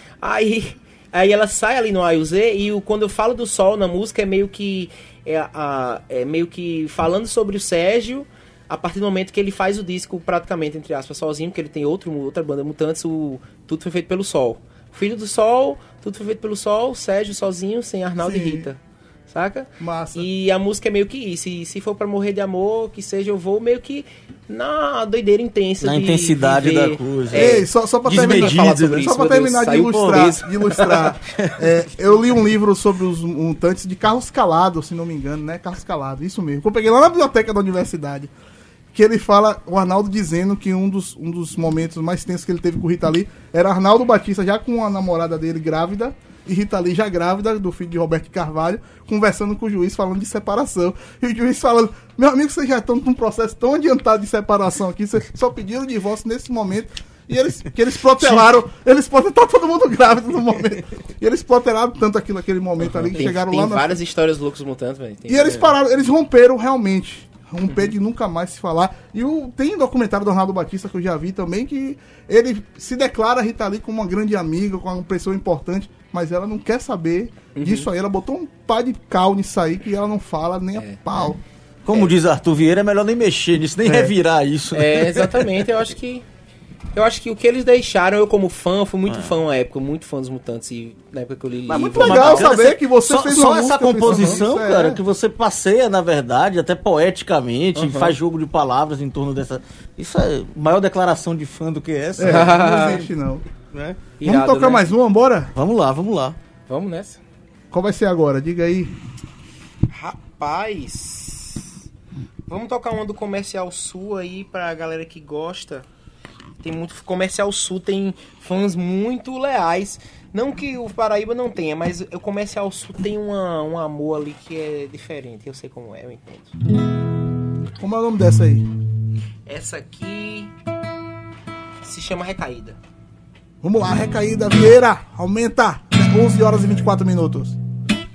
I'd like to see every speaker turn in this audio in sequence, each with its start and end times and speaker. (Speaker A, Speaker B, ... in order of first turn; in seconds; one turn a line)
Speaker A: 0.2-31.2
Speaker B: 18.2-18.7
Speaker B: 19.8-20.3
Speaker C: 25.8-29.0
Speaker B: 27.3-38.3
Speaker C: 30.0-30.3
Speaker B: 38.9-64.0
Speaker A: 62.8-65.7
Speaker B: 65.3-81.4
Speaker A: 77.6-77.9
Speaker C: 81.8-85.5
Speaker B: 83.8-84.1
Speaker A: 84.7-86.3
Speaker A: 86.9-92.5
Speaker C: 89.1-89.3
Speaker C: 91.7-103.0
Speaker B: 91.8-95.0
Speaker A: 94.1-94.4
Speaker A: 97.8-98.2
Speaker B: 102.2-103.4
Speaker A: 102.2-103.0
Speaker C: 103.7-104.0
Speaker A: 104.2-104.9
Speaker B: 104.2-105.5
Speaker C: 105.5-106.4
Speaker A: 106.7-107.2
Speaker B: 107.7-108.9
Speaker A: 109.9-111.7
Speaker A: 112.5-115.9
Speaker A: 116.6-126.6
Speaker B: 127.8-128.7
Speaker A: 129.5-130.5
Speaker A: 131.8-132.8
Speaker B: 133.6-137.6